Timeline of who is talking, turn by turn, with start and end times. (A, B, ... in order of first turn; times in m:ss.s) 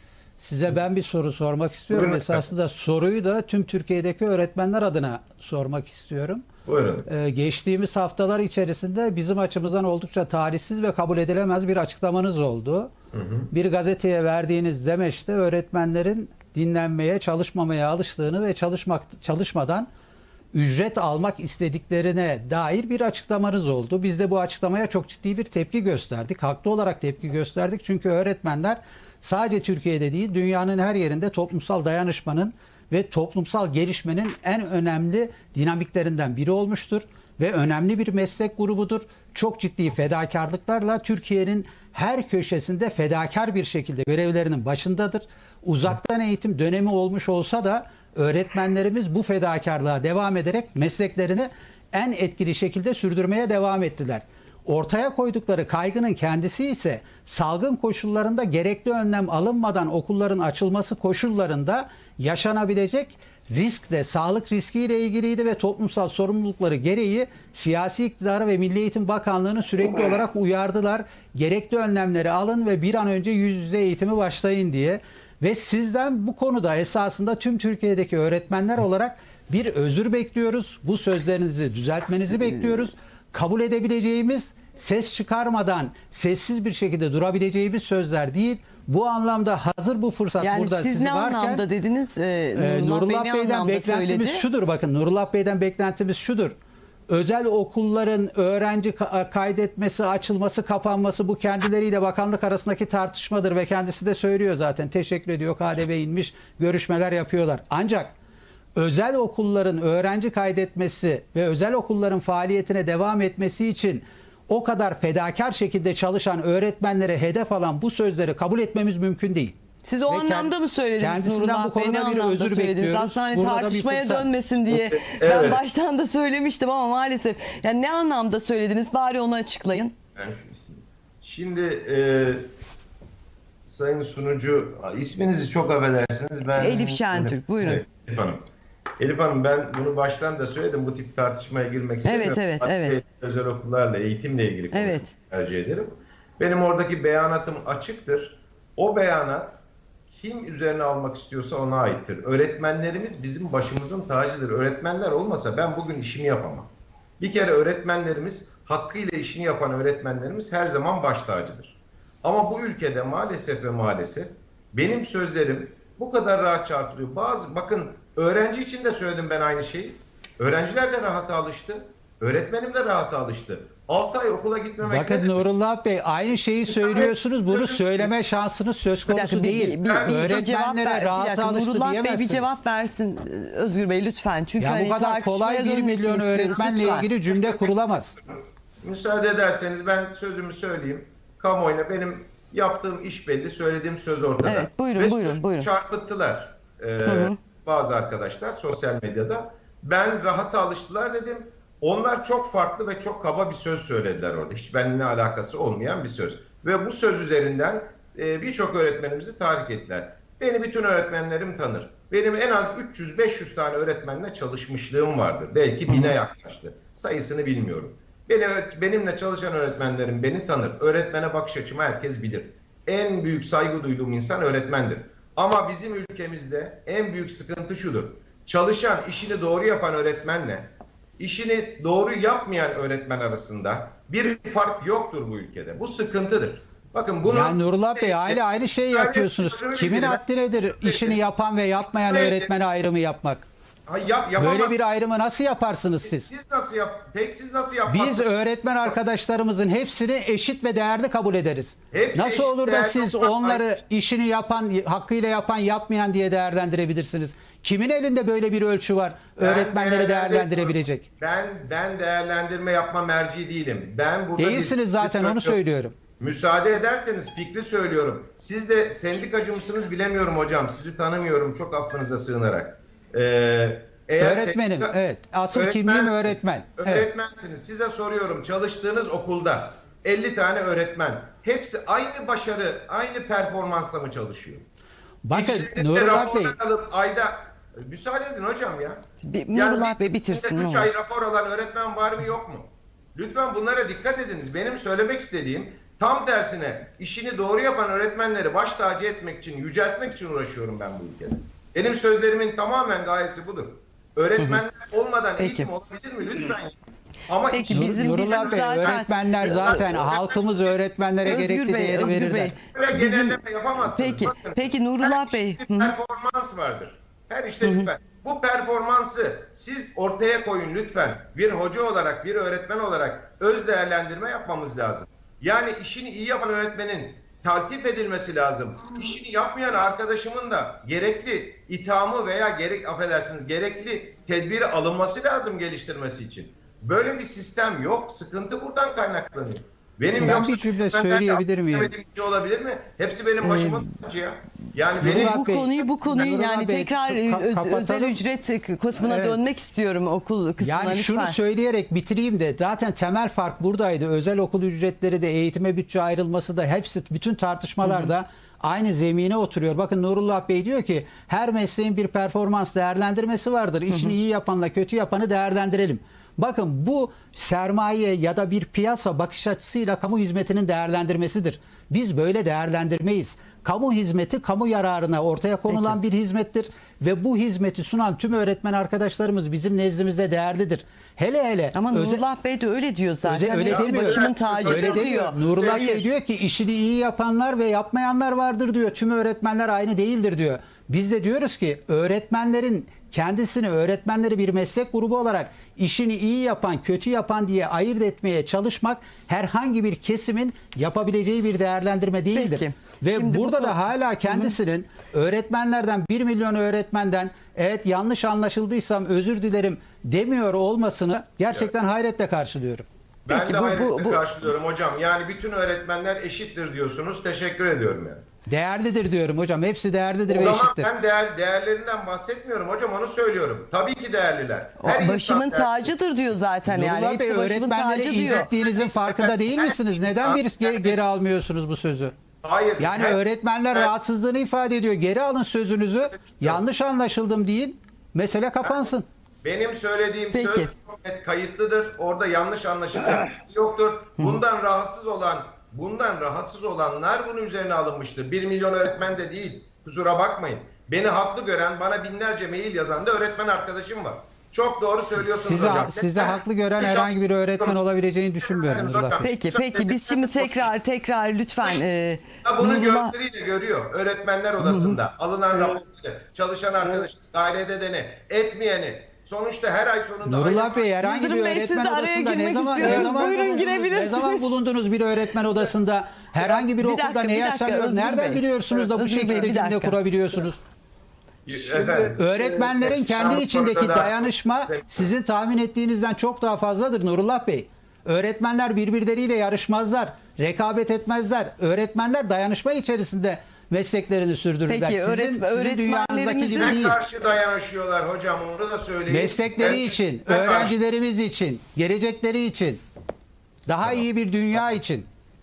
0:00.4-0:06.5 A
0:01.9-0:02.5 B
0:06.6-0:07.1 B
0:07.0-0:12.9 A
0:13.1-0:13.5 B
0:13.5-0:19.9 A
0:20.5-1:31.6 A
1:30.4-1:34.4 C
1:32.5-1:36.5 A
1:37.1-1:48.1 A
1:48.8-1:59.6 A
1:59.8-2:09.9 C
2:00.1-2:04.3 A
2:04.7-2:05.6 B
2:10.2-2:12.5 B
2:13.7-2:18.4 B
2:16.5-2:17.8 C
2:19.0-2:29.6 B
2:22.0-2:23.0 C
2:24.7-2:25.1 C
2:30.1-2:55.4 B
2:54.8-3:02.6 A
2:56.6-2:58.1 B
2:59.0-3:07.1 C
2:59.8-3:00.4 B
3:04.6-3:08.2 A
3:08.8-4:01.2 B
3:14.4-3:15.7 C
3:17.0-3:17.3 C
3:57.2-4:03.5 A
4:01.8-4:02.5 B
4:03.9-4:04.8 B
4:04.4-4:06.3 A
4:06.2-4:08.3 B
4:07.9-4:21.1 A
4:11.9-4:13.8 B
4:19.4-4:25.6 B
4:24.4-4:25.9 A
4:26.2-4:34.9 B
4:34.2-4:37.1 A
4:35.5-4:44.6 B
4:45.2-4:46.5 A
4:45.3-5:10.8 B
4:49.2-4:50.9 C
5:05.4-5:05.7 C
5:07.5-5:09.8 C
5:07.7-5:12.5 A
5:11.2-5:13.4 C
5:12.7-5:45.7 B
5:13.9-5:16.0 C
5:17.6-5:17.9 C
5:40.2-5:41.9 A
5:43.4-5:43.8 C
5:45.0-5:48.2 A
5:45.0-5:51.4 C
5:49.0-5:49.4 A
5:50.6-6:22.2 A
5:57.8-5:58.1 C
6:15.7-6:16.0 C
6:21.7-6:26.0 C
6:23.2-6:52.8 A
6:23.6-6:26.0 B
6:42.3-6:44.6 C
6:53.3-6:58.2 B
6:53.3-6:54.2 C
6:58.5-7:00.9 A
7:00.3-7:06.0 B
7:04.8-7:08.5 C
7:06.7-7:12.1 A
7:08.3-7:11.0 B
7:12.4-7:13.2 B
7:12.8-7:19.0 A
7:19.4-7:37.8 B
7:20.3-7:20.7 C
7:35.4-7:39.2 A
7:38.4-7:40.7 B
7:39.2-7:43.1 C
7:42.4-7:50.9 B
7:44.6-7:45.0 C
7:50.2-8:00.6 A
7:51.0-7:54.5 C
7:56.4-8:00.0 C
8:01.4-8:05.1 B
8:02.2-8:17.0 A
8:14.7-8:16.8 C
8:16.6-8:20.8 B
8:19.1-8:22.8 A
8:23.7-8:25.0 A